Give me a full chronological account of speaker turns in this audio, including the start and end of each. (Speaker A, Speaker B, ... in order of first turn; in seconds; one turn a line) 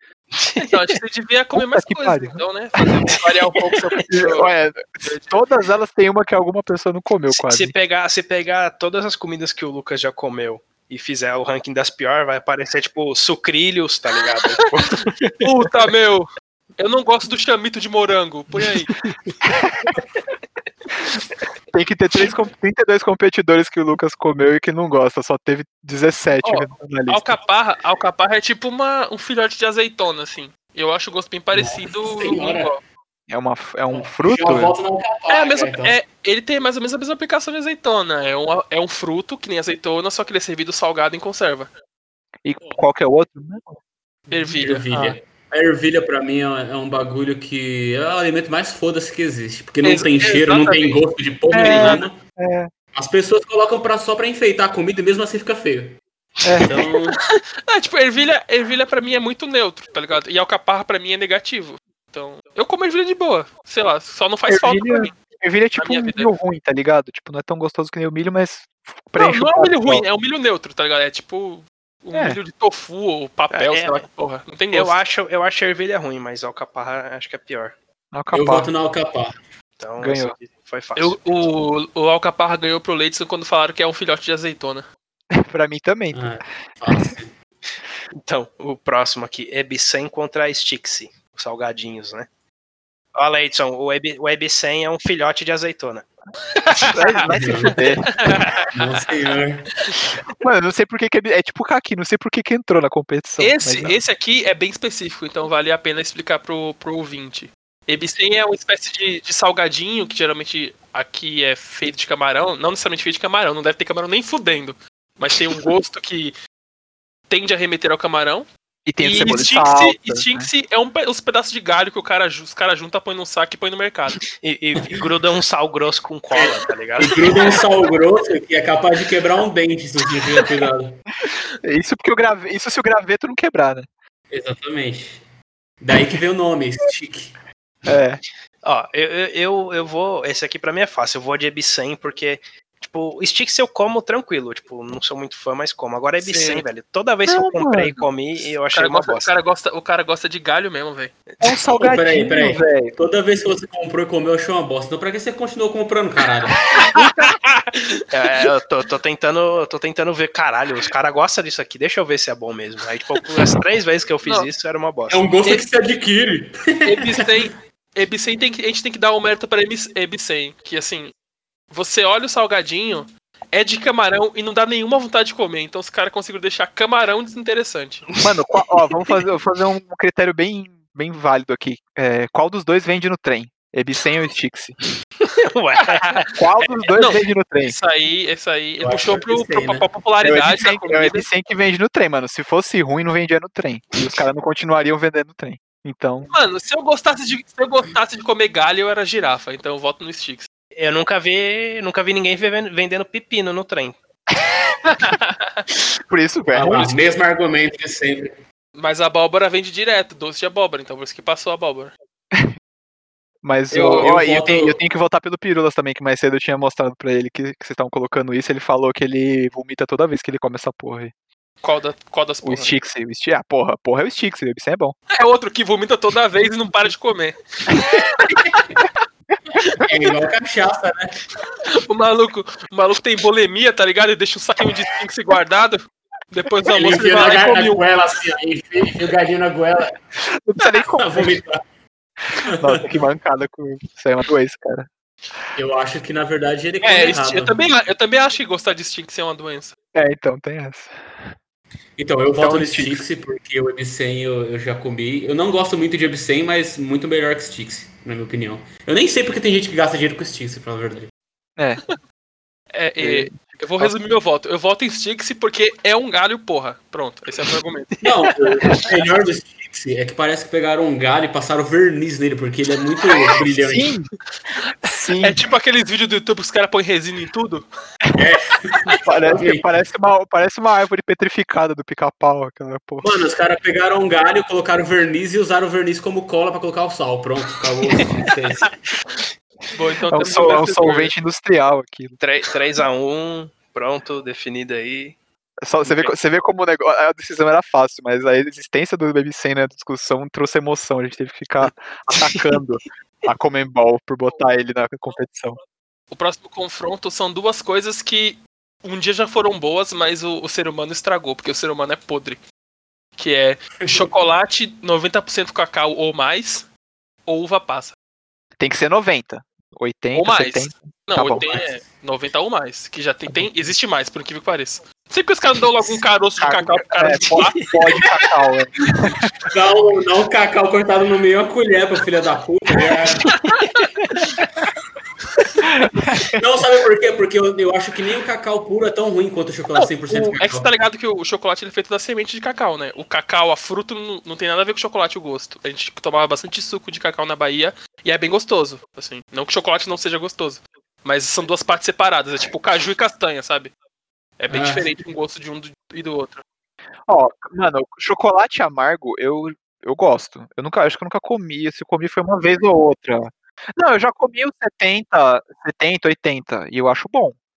Speaker A: 0.4-0.8
Speaker B: 0.6-5.4
Speaker C: 1.5-2.4
Speaker C: 4.1-7.8
Speaker A: 7.3-15.5
Speaker B: 15.4-18.9
Speaker A: 18.9-19.2
Speaker C: 21.7-27.4
Speaker B: 26.4-32.8
Speaker D: 31.5-32.7
Speaker C: 33.3-34.8
Speaker D: 33.9-36.0
Speaker B: 35.3-41.7
Speaker C: 42.5-43.8
Speaker B: 44.3-44.8
Speaker D: 44.6-52.2
Speaker C: 44.9-45.2
Speaker B: 49.8-51.0
Speaker C: 51.5-52.7
Speaker B: 51.5-52.1
Speaker D: 52.9-56.0
Speaker C: 56.4-56.9
Speaker D: 56.6-57.2
Speaker B: 57.4-65.2
Speaker C: 64.5-70.0
Speaker B: 65.8-66.3
Speaker B: 69.2-75.0
Speaker C: 72.1-72.4
Speaker A: 73.5-74.1
Speaker A: 74.7-77.8
Speaker C: 78.1-78.7
Speaker D: 78.3-79.4
Speaker A: 79.8-81.2
Speaker C: 80.0-80.4
Speaker B: 81.0-84.9
Speaker C: 85.3-86.2
Speaker D: 86.1-87.3
Speaker A: 88.2-92.3
Speaker A: 93.2-96.1
Speaker B: 96.6-97.2
Speaker C: 96.9-98.1
Speaker D: 97.3-97.8
Speaker B: 98.1-99.0
Speaker D: 98.7-99.7
Speaker C: 100.3-104.0
Speaker B: 103.4-116.3
Speaker B: 117.3-118.5
Speaker C: 118.9-120.5
Speaker B: 119.0-124.2
Speaker A: 124.3-127.6
Speaker D: 126.3-131.1
Speaker C: 131.6-133.9
Speaker D: 134.3-135.2
Speaker D: 135.8-137.4
Speaker C: 137.9-138.2
Speaker A: 138.6-149.3
Speaker B: 146.2-146.7
Speaker C: 147.3-148.1
Speaker B: 148.7-151.2
Speaker C: 151.4-152.9
Speaker D: 151.8-156.7
Speaker B: 156.8-158.1
Speaker A: 158.1-165.2
Speaker D: 165.1-167.3
Speaker B: 166.8-171.1
Speaker B: 171.7-178.1
Speaker C: 178.2-184.8
Speaker A: 185.4-186.7
Speaker C: 186.4-187.8
Speaker B: 186.9-191.3
Speaker D: 188.8-189.9
Speaker C: 190.2-196.3
Speaker B: 196.3-200.5
Speaker A: 200.8-204.0
Speaker B: 205.0-205.5
Speaker C: 206.1-206.9
Speaker D: 206.5-208.4
Speaker B: 208.8-211.9
Speaker C: 213.4-221.1
Speaker B: 213.7-214.1
Speaker D: 213.7-214.8
Speaker B: 221.6-222.7
Speaker C: 222.4-225.0
Speaker B: 225.2-227.9
Speaker D: 228.4-228.6
Speaker D: 229.7-231.2
Speaker B: 231.6-237.8
Speaker D: 236.7-239.9
Speaker C: 240.3-241.4
Speaker D: 240.9-241.6
Speaker D: 242.4-242.8
Speaker C: 242.5-244.9
Speaker D: 245.6-247.6
Speaker B: 246.8-249.7
Speaker C: 249.9-250.9
Speaker D: 252.0-261.1
Speaker C: 252.4-253.0
Speaker C: 261.6-261.8
Speaker B: 262.7-267.9
Speaker C: 263.0-264.1
Speaker D: 268.0-273.9
Speaker C: 273.5-274.1
Speaker C: 274.8-275.4
Speaker B: 275.2-277.7
Speaker D: 278.1-279.7
Speaker C: 279.0-283.1
Speaker D: 283.0-288.8
Speaker B: 289.7-291.1
Speaker C: 290.1-292.2
Speaker A: 292.2-295.2
Speaker C: 295.6-305.6
Speaker B: 306.1-312.4
Speaker B: 313.2-316.7
Speaker B: 317.3-317.9
Speaker C: 318.6-321.4
Speaker B: 320.1-328.1
Speaker D: 321.4-321.9
Speaker C: 326.4-329.3
Speaker A: 327.4-327.7
Speaker D: 329.4-333.4
Speaker B: 333.3-333.8
Speaker C: 335.8-336.4
Speaker D: 336.3-340.7
Speaker B: 339.8-353.7
Speaker B: 354.4-356.4
Speaker D: 354.5-354.9
Speaker C: 357.1-367.4